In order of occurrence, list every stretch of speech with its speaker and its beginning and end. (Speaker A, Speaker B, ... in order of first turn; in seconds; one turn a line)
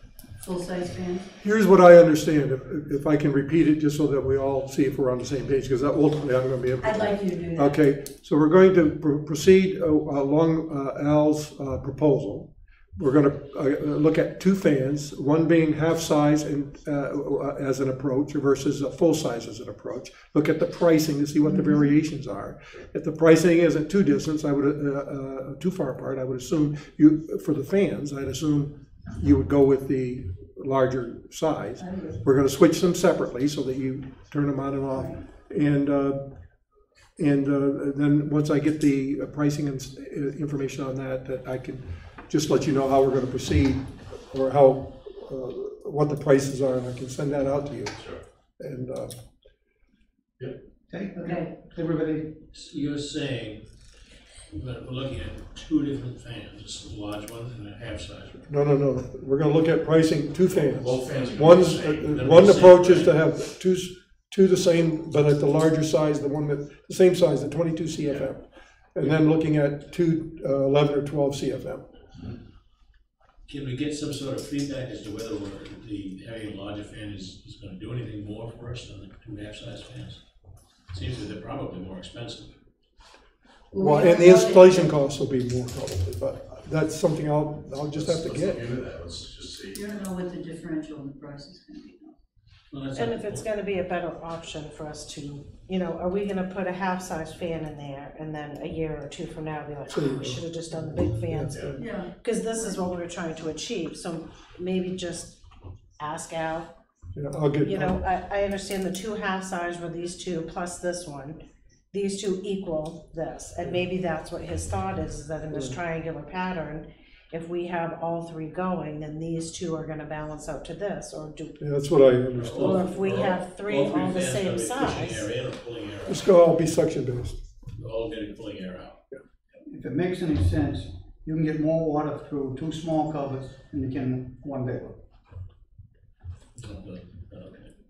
Speaker A: 0.4-1.3
Speaker B: 1.4-36.2
Speaker A: 6.8-7.8
Speaker A: 31.8-32.2
Speaker B: 37.2-48.0
Speaker B: 48.6-49.1
Speaker C: 50.9-52.4
Speaker A: 51.2-51.5
Speaker D: 52.5-53.6
Speaker D: 54.5-58.5
Speaker B: 58.5-71.9
Speaker E: 60.5-62.8
Speaker D: 62.1-63.2
Speaker D: 73.5-80.2
Speaker D: 80.9-82.5
Speaker A: 83.7-84.9
Speaker B: 83.8-88.7
Speaker E: 87.9-89.8
Speaker A: 89.7-92.2
Speaker D: 92.7-93.5
Speaker F: 93.0-105.4
Speaker B: 99.9-101.8
Speaker A: 101.8-102.1
Speaker F: 106.0-106.7
Speaker B: 107.2-108.0
Speaker F: 107.6-111.4
Speaker F: 111.9-121.7
Speaker B: 121.6-122.9
Speaker D: 122.3-126.3
Speaker F: 122.5-125.3
Speaker B: 126.1-127.4
Speaker D: 127.8-129.0
Speaker C: 129.7-135.0
Speaker D: 136.6-137.7